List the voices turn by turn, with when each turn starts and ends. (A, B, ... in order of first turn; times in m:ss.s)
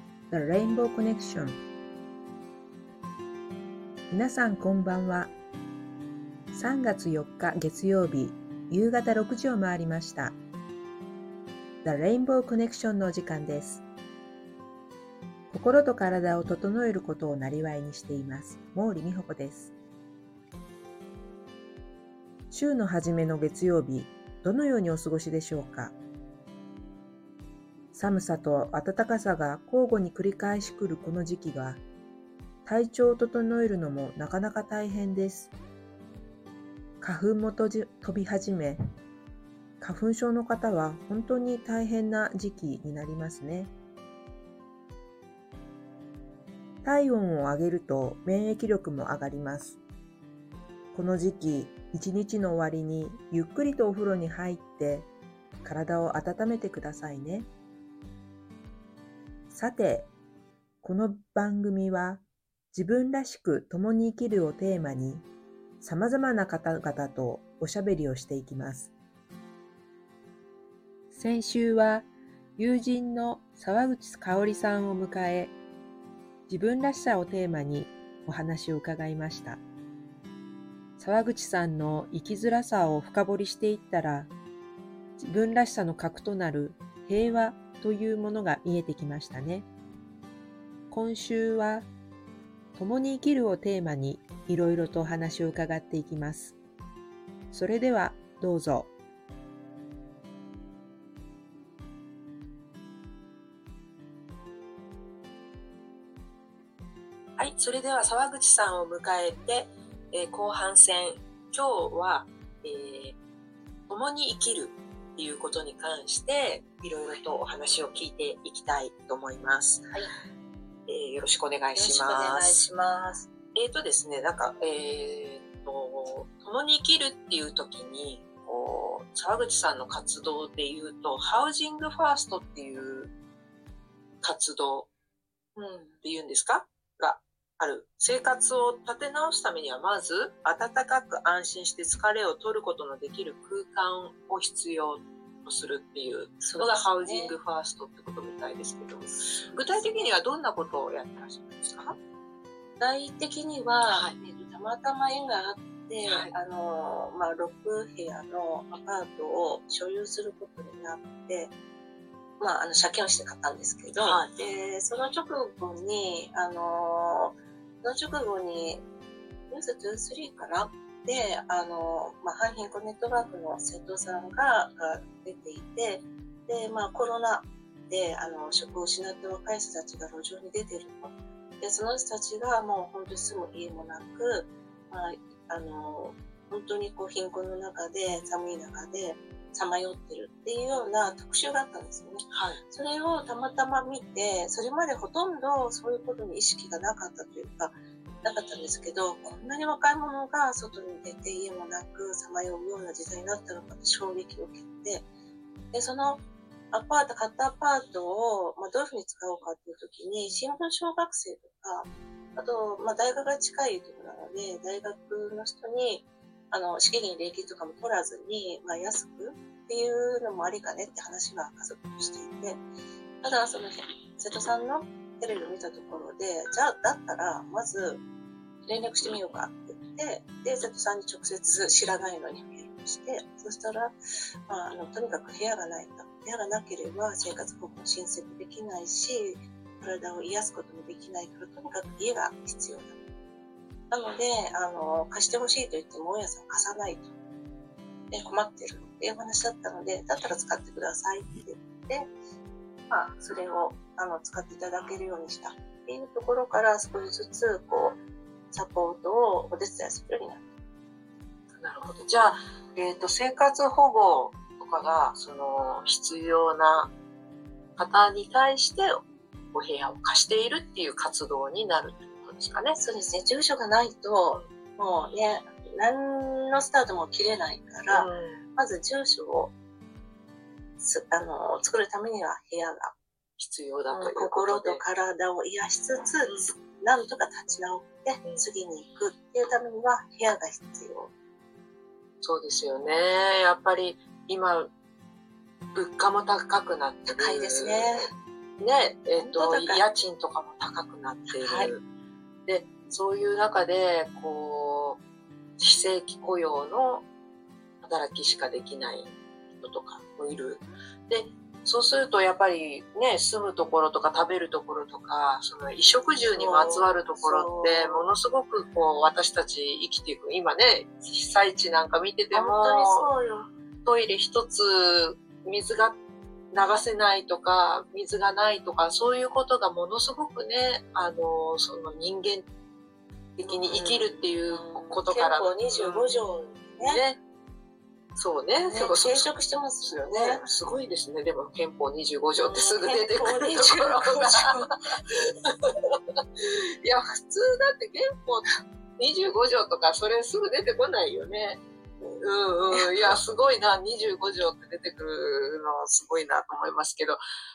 0:00.3-0:01.6 A
0:04.1-0:05.3 A
0:06.5-0:10.4 A
0:11.8-0:13.8 A
0:15.5-0:19.7 A
0:22.5-0:25.9 A
0:27.9-0:31.8 A
0:32.6-0:35.5 A
0:37.0-0:38.8 A
0:39.8-0:43.7 A
0:46.8-0:49.8 A
0:50.9-0:55.1 A
0:55.6-0:57.5 A
0:59.5-1:00.1 A
1:00.8-1:05.3 A
1:05.8-1:08.9 A
1:11.1-1:15.5 A
1:16.5-1:19.6 A
1:21.0-1:24.3 A
1:25.2-1:29.7 A
1:30.9-1:31.9 A
1:32.8-1:36.6 A
1:37.5-1:38.9 A
1:47.4-1:53.2 B
1:53.9-1:59.9 B
2:00.9-2:02.6 B
2:01.7-2:03.3 C
2:03.5-2:13.1 B
2:14.2-2:14.9 B
2:15.6-2:16.0 C
2:16.0-2:32.0 B
2:26.4-2:27.3 C
2:29.2-2:30.1 C
2:32.8-2:41.5 C
2:33.8-2:34.2 B
2:36.0-2:36.3 B
2:42.4-2:48.8 C
2:44.0-2:44.3 B
2:49.5-3:25.0 C
3:12.3-3:12.6 B
3:25.7-3:42.6 C
3:43.2-3:48.0 C
3:48.6-3:53.9 C
3:54.5-4:03.0 C
4:03.9-4:07.1 C
4:08.1-4:12.1 C
4:12.9-4:18.0 C
4:18.5-4:20.5 C
4:21.6-4:26.9 B
4:27.8-4:32.8 B
4:32.8-4:39.5 C
4:37.9-4:38.4 B
4:40.8-4:42.9 C
4:43.4-4:44.8 B
4:43.9-4:51.1 C
4:46.3-4:46.5 B
4:52.2-4:54.7 B
4:55.7-5:01.8 B
4:57.1-4:58.1 C
4:59.1-4:59.8 C
5:01.4-5:01.7 C
5:02.4-5:05.0 B
5:05.6-5:07.0 B
5:07.8-5:23.1 B
5:16.2-5:18.1 C
5:22.3-5:23.5 C
5:23.8-5:26.0 B
5:26.5-5:32.4 B
5:33.4-5:36.2 B
5:33.4-5:37.0 C
5:36.8-5:37.2 B
5:38.1-5:57.2 B
5:38.7-5:40.4 C
5:42.4-5:44.7 C
5:52.7-5:53.2 C